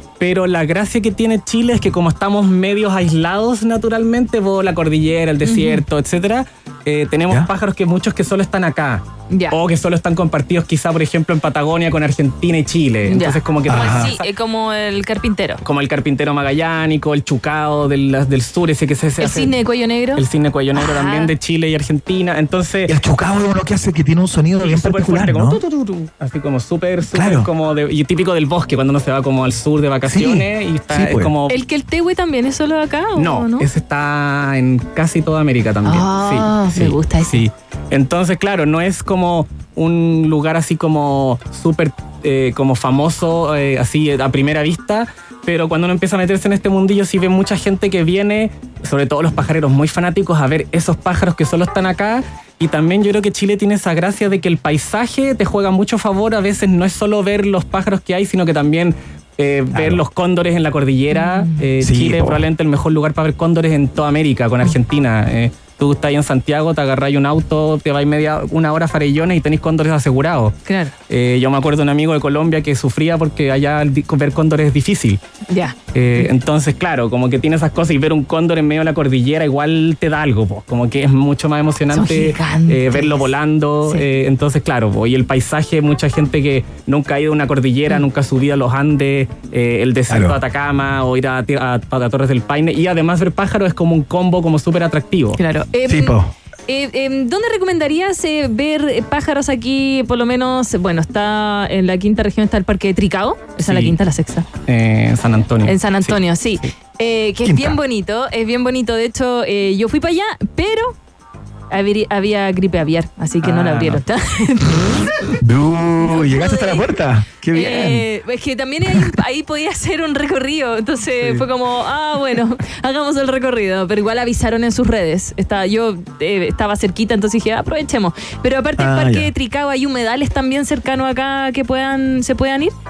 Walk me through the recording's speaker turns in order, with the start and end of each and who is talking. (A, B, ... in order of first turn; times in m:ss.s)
0:00.2-0:14.2 A
0:05.4-0:05.8 B
0:09.3-0:09.6 B
0:13.0-0:15.6 B
0:13.7-0:14.1 C
0:15.6-0:19.5 A
0:19.2-0:20.2 B
0:20.1-0:22.9 A
0:20.7-0:21.3 B
0:22.9-0:25.6 C
0:24.6-0:31.5 A
0:27.1-0:27.5 C
0:30.0-0:31.3 C
0:31.5-0:33.7 B
0:33.2-1:10.5 A
0:35.8-0:37.4 B
0:59.7-1:00.0 C
1:01.1-1:01.6 B
1:01.8-1:02.4 C
1:10.7-1:10.9 B
1:11.1-1:15.2 A
1:15.5-1:16.3 B
1:15.9-1:35.4 A
1:21.9-1:23.3 B
1:30.1-1:30.4 C
1:35.4-1:36.1 B
1:35.9-1:36.3 C
1:36.7-1:44.4 B
1:43.6-1:44.0 A
1:44.7-1:46.6 A
1:45.6-1:50.9 B
1:47.4-1:47.8 C
1:51.7-1:55.4 B
1:53.4-1:54.0 C
1:55.4-1:58.0 C
1:56.0-1:57.0 B
1:57.5-2:12.7 B
2:08.8-2:09.3 C